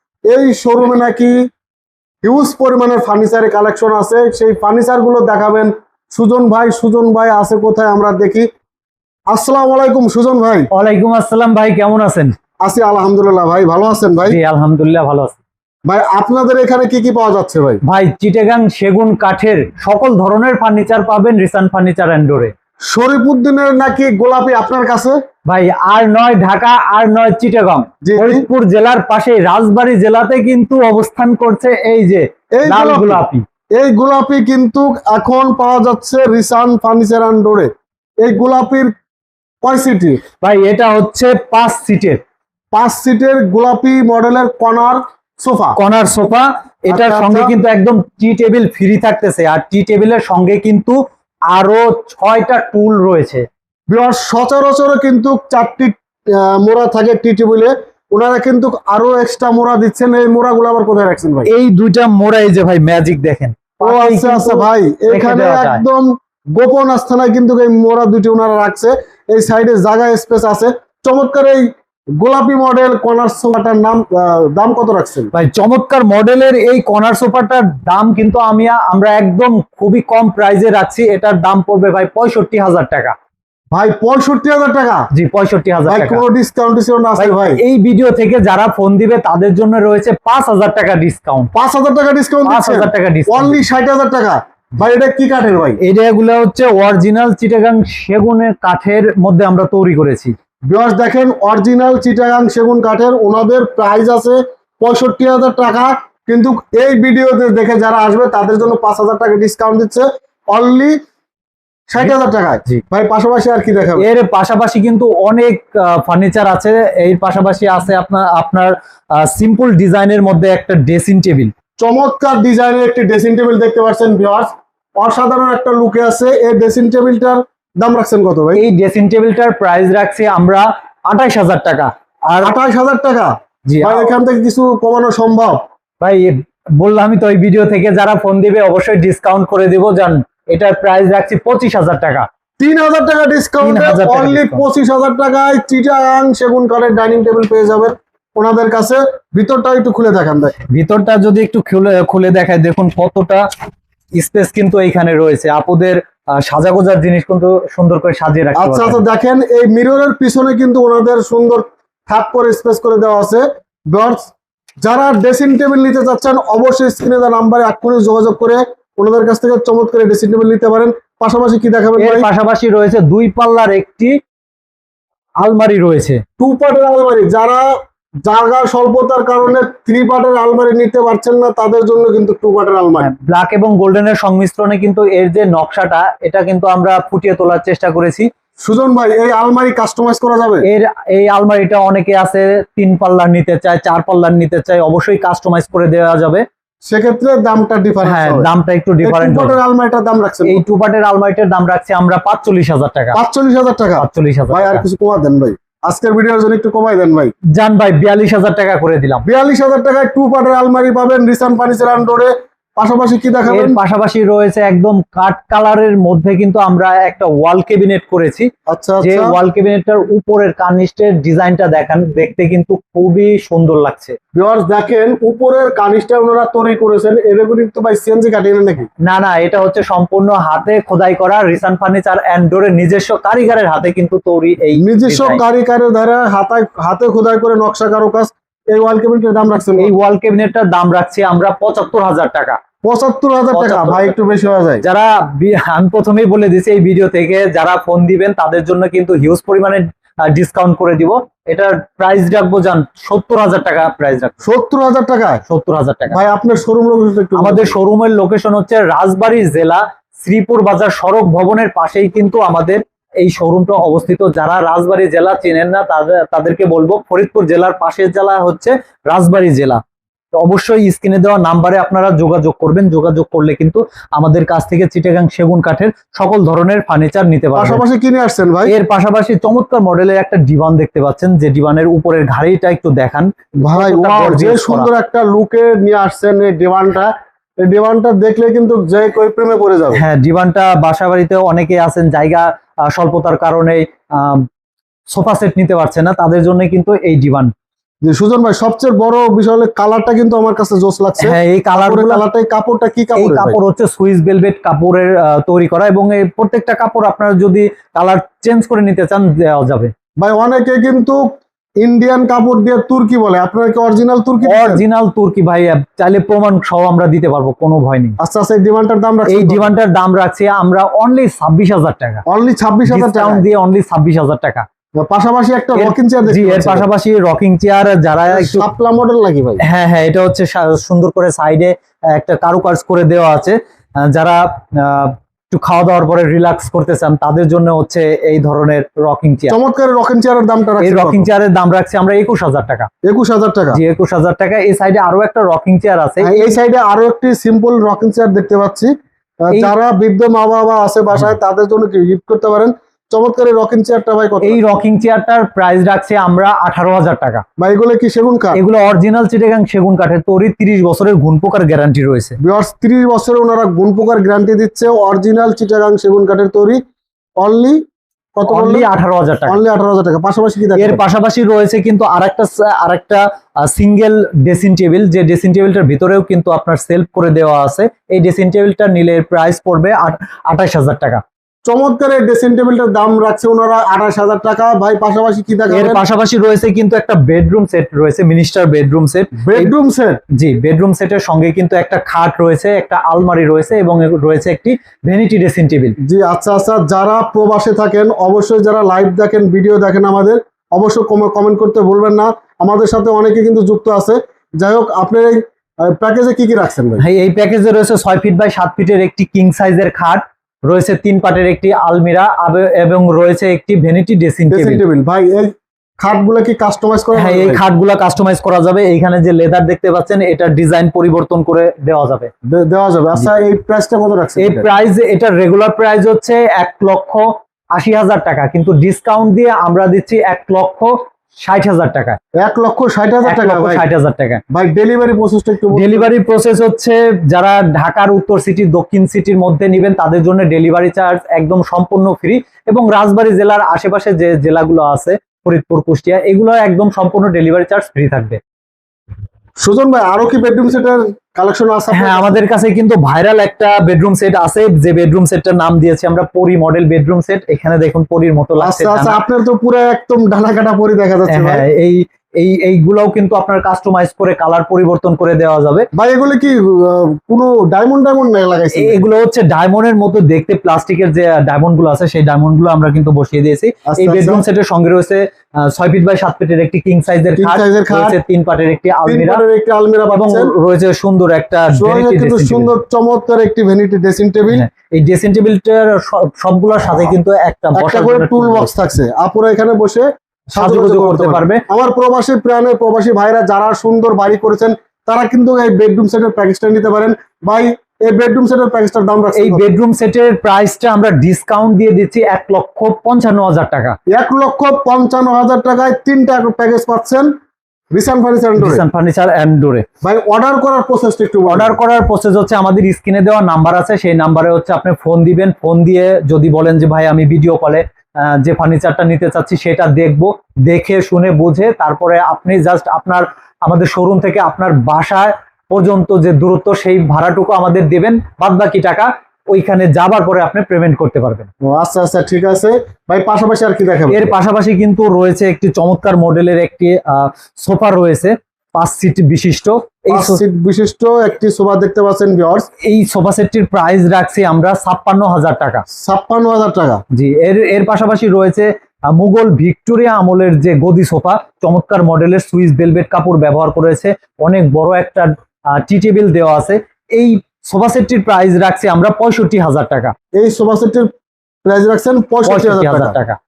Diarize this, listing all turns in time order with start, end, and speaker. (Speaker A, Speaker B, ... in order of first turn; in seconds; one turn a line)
Speaker A: 0.3-1.3
Speaker A: 2.2-8.5
Speaker A: 9.3-10.7
Speaker B: 10.7-12.3
Speaker A: 12.6-14.4
Speaker B: 14.2-15.4
Speaker A: 15.8-17.8
Speaker B: 17.9-22.5
Speaker A: 22.9-25.2
Speaker B: 25.5-33.5
Speaker A: 28.0-28.4
Speaker A: 32.6-33.2
Speaker A: 33.8-37.7
Speaker A: 38.2-38.9
Speaker A: 39.6-40.2
Speaker B: 40.4-42.2
Speaker A: 42.7-45.8
Speaker B: 45.8-51.0
Speaker A: 46.9-47.5
Speaker B: 51.5-53.5
Speaker A: 53.9-61.5
Speaker B: 61.5-65.8
Speaker A: 63.8-71.7
Speaker A: 72.2-75.3
Speaker B: 75.3-83.1
Speaker A: 83.7-85.1
Speaker B: 85.1-86.2
Speaker A: 85.9-87.6
Speaker B: 87.2-91.5
Speaker A: 91.5-95.8
Speaker B: 92.5-93.6
Speaker B: 95.8-100.3
Speaker A: 100.7-111.0
Speaker A: 111.9-114.1
Speaker B: 114.0-121.5
Speaker A: 121.8-128.6
Speaker B: 128.6-132.5
Speaker A: 132.4-135.6
Speaker B: 133.7-134.1
Speaker B: 136.0-142.3
Speaker A: 142.6-150.6
Speaker B: 143.6-144.6
Speaker B: 150.7-153.5
Speaker B: 154.2-159.0
Speaker A: 158.6-164.3
Speaker A: 164.8-172.3
Speaker B: 172.0-174.2
Speaker B: 175.4-176.2
Speaker A: 176.4-177.7
Speaker A: 178.3-183.1
Speaker B: 183.0-188.3
Speaker A: 188.7-190.6
Speaker B: 190.7-196.4
Speaker A: 196.8-198.5
Speaker B: 198.0-199.6
Speaker A: 199.0-200.6
Speaker B: 200.4-203.2
Speaker A: 203.1-207.3
Speaker B: 204.0-204.8
Speaker B: 207.5-209.2
Speaker A: 209.2-213.8
Speaker B: 213.5-218.5
Speaker A: 218.7-219.4
Speaker B: 219.0-224.2
Speaker A: 224.4-228.9
Speaker B: 229.0-235.4
Speaker A: 234.8-239.9
Speaker B: 239.8-242.6
Speaker A: 242.8-244.8
Speaker B: 243.5-244.1
Speaker B: 244.8-254.4
Speaker A: 254.4-255.4
Speaker B: 255.5-256.2
Speaker A: 256.1-257.8
Speaker B: 257.4-269.8
Speaker B: 270.3-277.8
Speaker A: 277.6-278.7
Speaker B: 278.7-284.9
Speaker A: 283.6-287.1
Speaker A: 287.6-290.0
Speaker B: 289.9-294.4
Speaker B: 295.1-297.5
Speaker A: 298.1-303.6
Speaker B: 301.2-302.2
Speaker B: 303.2-309.9
Speaker A: 310.2-311.2
Speaker A: 311.8-314.8
Speaker B: 314.4-318.2
Speaker A: 318.2-319.7
Speaker B: 319.3-322.2
Speaker A: 322.2-323.4
Speaker B: 322.9-324.6
Speaker A: 325.0-326.9
Speaker B: 325.8-328.6
Speaker A: 328.3-329.6
Speaker B: 329.7-339.6
Speaker A: 339.5-341.3
Speaker B: 340.8-342.9
Speaker A: 343.1-343.8
Speaker B: 343.7-346.6
Speaker A: 346.2-348.9
Speaker A: 349.4-354.6
Speaker B: 354.4-357.4
Speaker A: 357.6-358.6
Speaker B: 358.6-362.4
Speaker A: 362.4-366.8
Speaker A: 367.4-367.8
Speaker A: 368.4-368.9
Speaker B: 368.5-369.6
Speaker A: 369.5-371.0
Speaker B: 370.8-381.2
Speaker A: 381.7-386.0
Speaker B: 385.7-389.7
Speaker A: 389.4-390.2
Speaker B: 390.4-395.9
Speaker A: 396.0-407.0
Speaker B: 407.0-414.8
Speaker A: 414.5-417.6
Speaker B: 417.1-422.3
Speaker A: 422.5-424.7
Speaker B: 424.4-432.2
Speaker A: 432.4-433.8
Speaker B: 433.2-434.4
Speaker A: 434.5-436.1
Speaker B: 435.7-448.4
Speaker A: 449.6-452.4
Speaker B: 451.9-459.2
Speaker A: 458.6-461.6
Speaker B: 461.3-465.9
Speaker A: 465.9-469.0
Speaker B: 468.8-479.4
Speaker A: 473.9-474.4
Speaker A: 477.4-478.2
Speaker A: 479.1-480.5
Speaker B: 480.1-482.7
Speaker A: 481.7-484.6
Speaker B: 484.5-488.7
Speaker A: 487.8-499.6
Speaker B: 490.6-491.6
Speaker B: 499.3-504.0
Speaker A: 504.1-507.3
Speaker A: 507.9-508.8
Speaker B: 508.6-509.8
Speaker A: 510.0-511.8
Speaker B: 511.5-531.5
Speaker A: 531.6-534.3
Speaker B: 534.1-540.4
Speaker A: 540.1-542.7
Speaker B: 542.8-545.8
Speaker A: 546.0-547.0
Speaker B: 547.1-560.1
Speaker A: 560.4-561.1
Speaker A: 561.6-563.1
Speaker B: 562.4-563.4